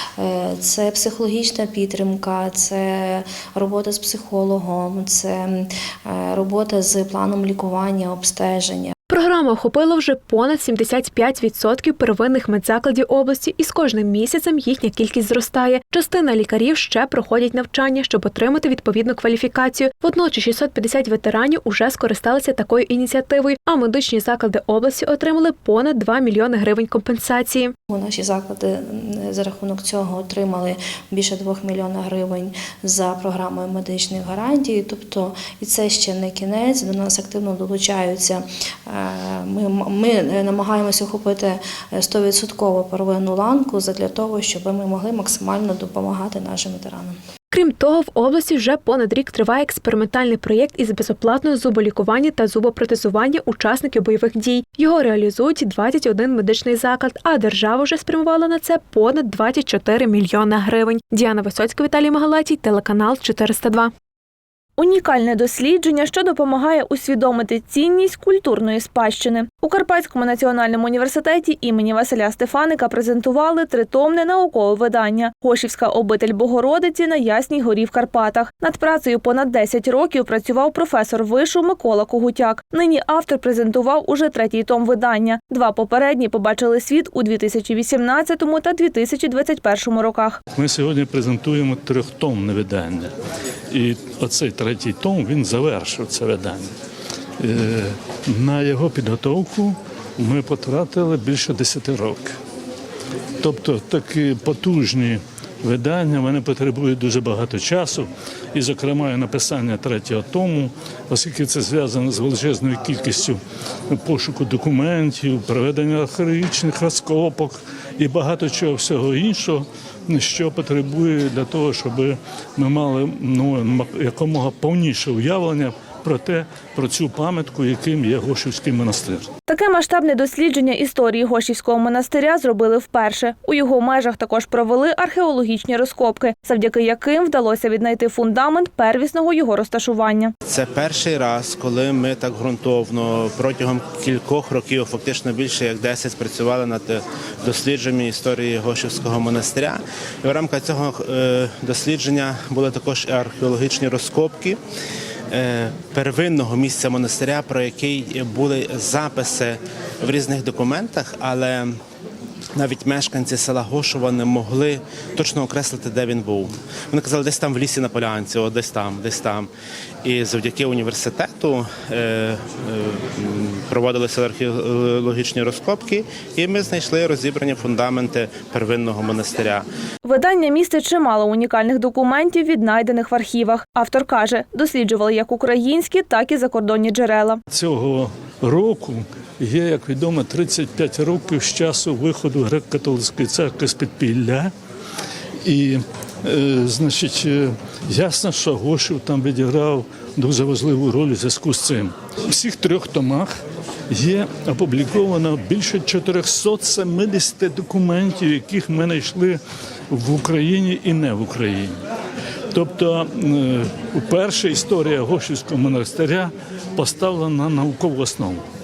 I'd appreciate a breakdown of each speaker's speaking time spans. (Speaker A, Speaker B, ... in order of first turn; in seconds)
Speaker A: 0.2-8.9, 27.9-47.1
Speaker B: 9.1-27.7, 47.5-63.9
Speaker C: 64.8-90.4, 129.5-140.3, 180.0-187.4
Speaker D: 90.5-93.1, 93.7-96.7, 97.4-102.3, 103.4-113.4, 113.9-129.3, 187.5-194.5, 195.4-203.3, 203.9-209.4, 209.9-211.8, 212.5-218.4
Speaker E: 140.4-154.6, 155.3-161.8, 162.5-169.5, 170.0-179.7